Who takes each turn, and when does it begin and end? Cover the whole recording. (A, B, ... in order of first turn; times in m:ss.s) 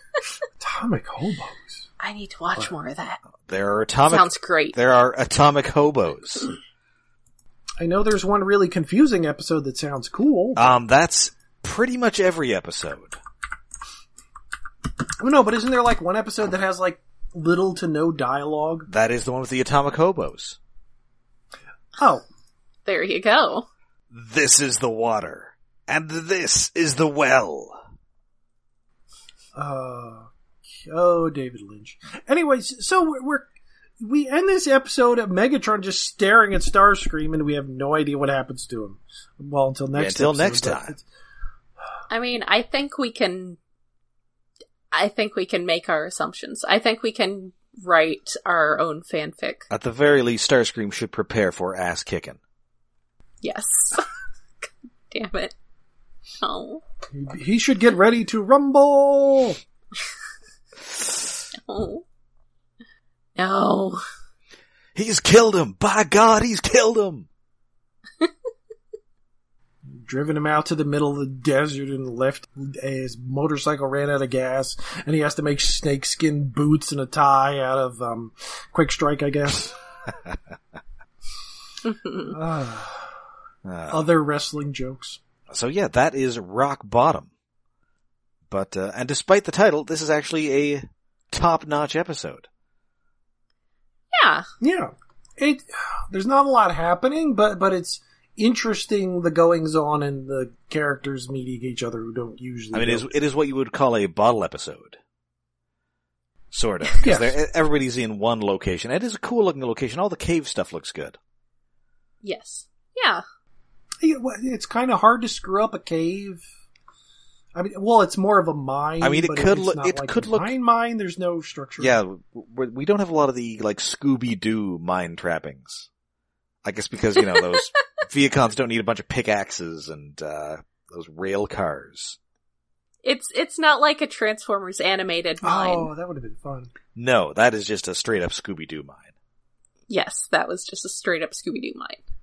0:00.6-0:01.8 A
0:02.0-0:03.2 B
0:03.4-0:06.5 C
0:04.1-0:04.8 B
0:07.8-0:10.8 A
0:10.6-0:13.2 C
0:15.2-0:18.9 A
0:18.9-0:20.6 C
0:22.0-0:22.2 A
0:22.8-0:23.7 B
0:24.1-0:27.8 C
0:29.5-0:33.5 A
0:34.0-0:41.0 A
0:39.9-0:41.0 C
0:42.1-0:43.6 B
0:44.9-0:49.7 B
0:49.7-0:52.4 C
0:53.4-0:54.1 B
0:54.6-0:55.5 B
0:56.4-0:56.8 B
0:57.1-0:59.6 A
1:01.5-1:02.0 B
1:03.4-1:04.0 B
1:04.9-1:07.3 C
1:09.8-1:19.8 A
1:21.8-1:22.3 B
1:22.3-1:23.1 A
1:23.6-1:24.1 C
1:23.9-1:25.2 A
1:25.5-1:27.3 C
1:28.5-1:32.5 C
1:34.1-1:34.4 B
1:34.6-1:43.1 A
1:42.7-1:45.0 C
1:46.5-1:51.2 C
1:47.0-1:47.3 A
1:52.2-1:53.2 B
1:54.0-1:56.4 A
1:57.5-2:01.9 A
1:59.0-2:00.5 C
2:01.8-2:05.9 C
2:06.6-2:12.2 C
2:07.2-2:07.4 B
2:13.0-2:15.9 B
2:15.4-2:16.7 A
2:16.9-2:19.1 C
2:19.9-2:22.0 B